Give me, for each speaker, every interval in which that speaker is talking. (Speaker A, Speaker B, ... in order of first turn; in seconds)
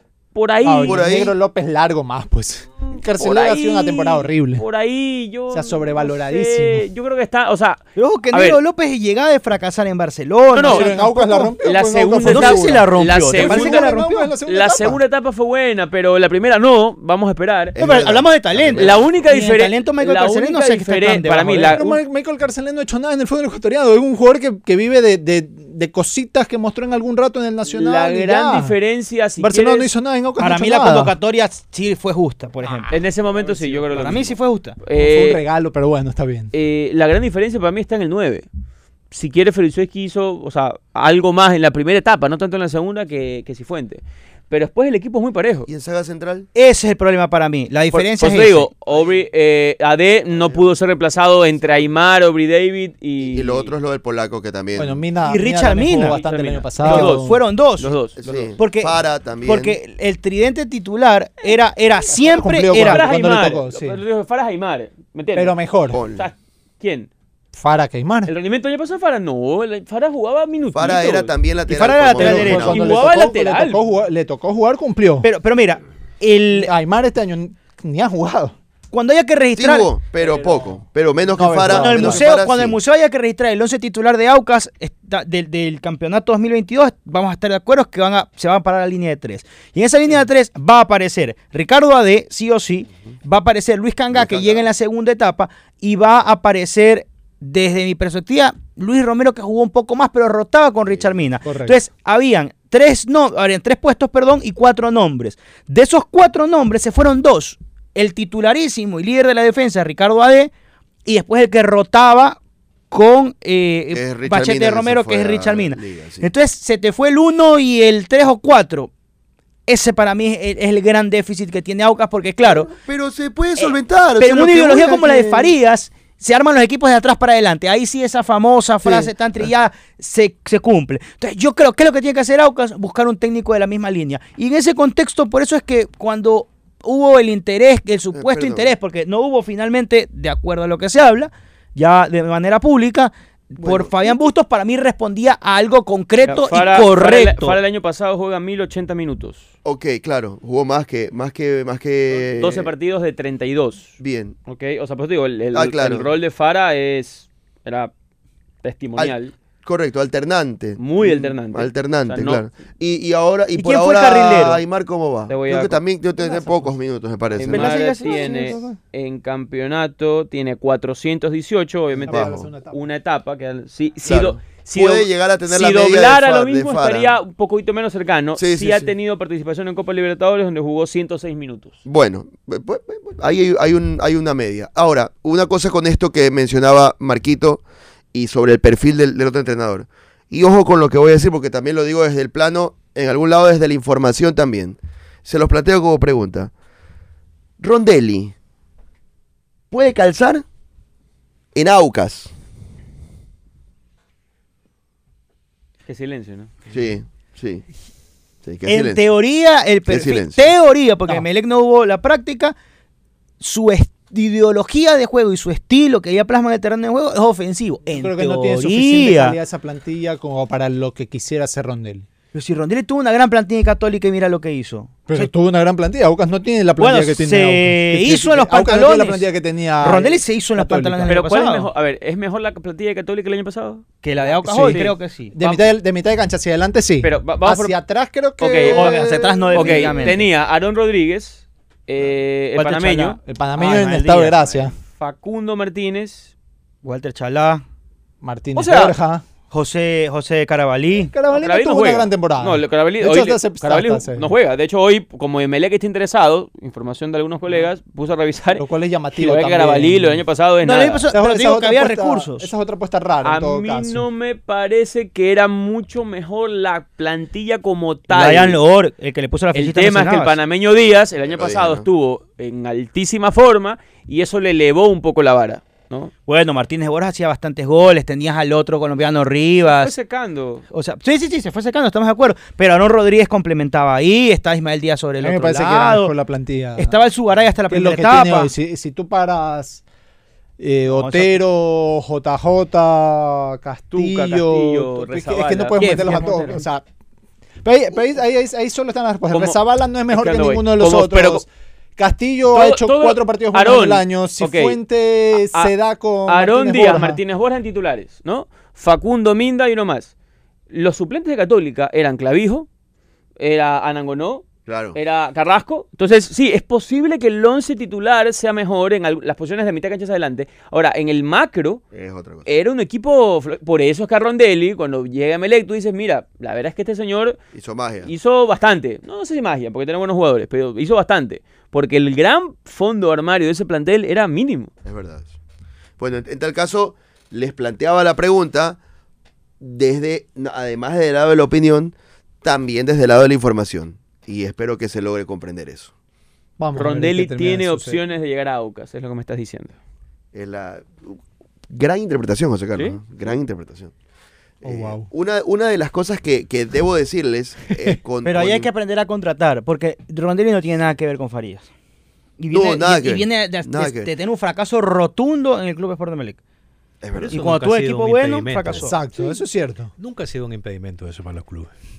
Speaker A: 0.3-1.0, 3.2-8.6, 10.5-17.8, 18.7-22.0, 27.6-29.9, 32.9-35.4, 36.5-38.5, 39.1-45.7, 47.9-53.7, 55.9-58.6, 62.7-67.1, 68.2-71.3, 72.6-73.8, 146.2-149.5, 152.1-153.9, 154.5-157.9, 158.6-159.3, 160.8-162.4, 165.3-165.8, 167.4-181.8, 205.9-206.5, 231.1-233.8, 234.6-234.9, 237.0-237.8, 238.4-238.9, 239.5-243.2, 245.0-246.3, 248.5-249.0, 251.3-258.6, 259.1-261.0, 263.2-268.6, 269.5-276.1, 279.6-280.6, 293.9-296.6, 299.3-299.6, 300.1-301.4, 302.5-304.8, 305.3-305.7, 306.2-310.1, 310.7-312.7, 313.4-321.8, 322.4-327.4, 328.0-334.7, 346.7-349.7
Speaker B: 0.6-4.6, 5.5-6.9, 10.7-12.8, 13.4-15.0, 21.7-28.8, 29.4-31.1, 32.6-33.9, 34.9-36.5, 54.8-57.4, 62.1-64.0, 65.3-66.0, 67.5-68.3, 72.2-75.3, 76.5-78.5, 81.3-82.3, 101.4-101.8, 166.2-166.7, 168.0-168.7, 171.9-172.8, 218.0-222.1, 225.1-231.1, 234.4-240.2, 242.6-244.7, 248.2-249.2, 251.1-254.3, 258.6-260.3, 261.1-264.0, 285.2-287.0, 287.7-289.8, 290.6-296.8, 297.6-307.2, 346.6-348.0, 354.6-355.1, 368.7-369.9
Speaker C: 0.8-1.3, 17.8-19.3, 45.7-46.5, 53.2-55.0, 58.2-59.8, 65.9-66.3, 70.7-72.9, 79.5-82.8, 94.1-94.6, 113.9-116.3, 122.4-125.5, 128.8-129.1, 138.1-138.7, 143.6-144.1, 149.6-152.7, 154.0-154.3, 155.5-156.1, 159.0-167.8, 172.1-172.4, 174.0-177.1, 178.4-178.9, 181.8-187.6, 188.1-196.5, 197.6-198.3, 199.7-200.4, 201.5-202.3, 206.7-207.6, 208.4-209.0, 209.9-210.4, 238.8-239.5, 271.3-271.8, 314.7-315.0, 321.9-322.5, 327.5-328.1, 334.8-335.3, 336.0-338.8, 339.6-345.9, 350.3-351.2, 351.7-353.9, 354.6-358.7, 362.5-364.1, 367.0-367.5
Speaker D: 8.0-11.1, 12.2-14.3, 17.8-21.8, 30.4-33.0, 33.9-34.8, 46.5-48.7, 55.2-56.2, 56.8-58.0, 58.6-63.1, 71.7-72.9, 75.2-76.7, 78.9-80.5, 81.6-110.5, 111.0-112.4, 112.9-118.9, 119.7-122.7, 123.6-147.6, 163.5-164.6, 167.5-168.8, 208.7-212.6, 213.4-219.4, 222.3-225.3, 226.8-229.3, 229.8-231.7, 234.0-235.6, 238.6-240.3, 242.6-244.6, 246.8-247.6, 249.5-251.1, 260.6-262.5, 268.1-270.4, 276.3-279.9, 280.7-286.1, 286.8-288.5, 290.9-291.4, 358.2-361.7, 362.4-366.4, 367.2-369.3
Speaker E: 367.2-368.9, 370.0-371.7